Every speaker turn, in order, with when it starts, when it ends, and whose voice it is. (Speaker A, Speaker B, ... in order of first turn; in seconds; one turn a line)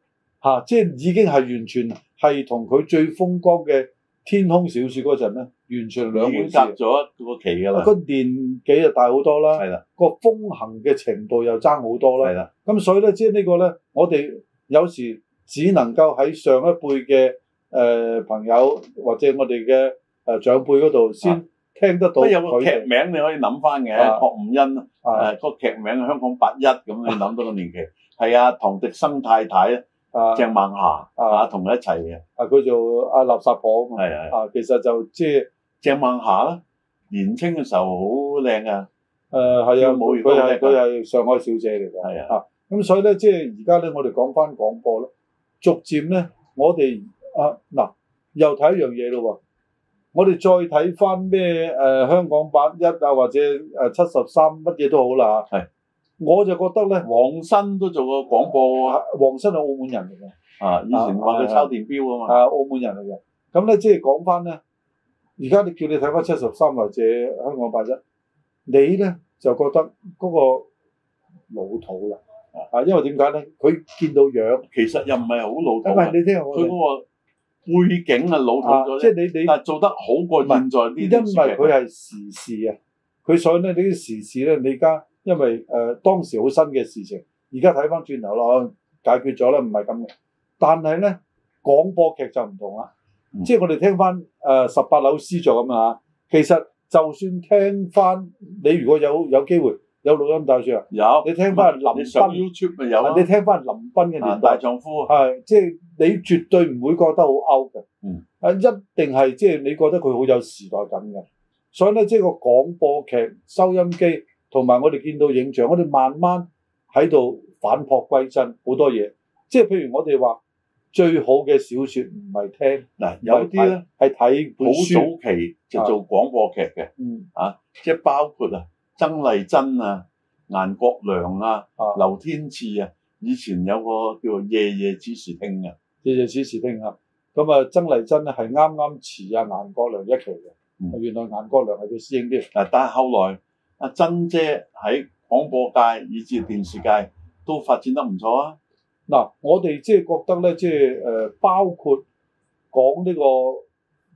Speaker A: 0.4-6.8
Speaker B: 6.1-7.9
Speaker A: 7.7-22.9
Speaker B: 9.6-9.8
Speaker B: 12.2-12.5
Speaker B: 22.2-29.8
Speaker A: 23.9-24.2
Speaker A: 25.0-25.3
Speaker A: 30.1-30.5
Speaker B: 30.3-32.2
Speaker A: 31.2-31.5
Speaker A: 32.4-35.5
Speaker B: 34.0-34.3
Speaker B: 35.8-38.9
Speaker A: 39.3-45.1
Speaker B: 39.8-40.8
Speaker B: 42.0-42.3
Speaker A: 45.6-49.4
Speaker A: 50.1-55.5
Speaker A: 56.2-57.1
Speaker B: 57.0-59.0
Speaker A: 58.8-60.3
Speaker B: 60.6-62.4
Speaker A: 60.9-61.7
Speaker A: 62.3-64.6
Speaker A: 65.4-68.0
Speaker A: 68.7-70.7
Speaker A: 71.5-72.2
Speaker A: 72.7-74.6
Speaker B: 74.7-77.0
Speaker A: 75.8-76.8
Speaker B: 77.7-81.7
Speaker A: 78.6-79.6
Speaker A: 80.4-92.9
Speaker A: 93.4-102.4
Speaker B: 100.9-103.2
Speaker A: 103.0-107.8
Speaker B: 104.2-105.1
Speaker A: 108.4-120.4
Speaker A: 120.9-125.1
Speaker B: 123.0-123.8
Speaker B: 124.6-135.7
Speaker A: 127.0-127.3
Speaker A: 136.0-142.5
Speaker B: 142.5-148.6
Speaker A: 149.1-152.0
Speaker A: 152.7-153.6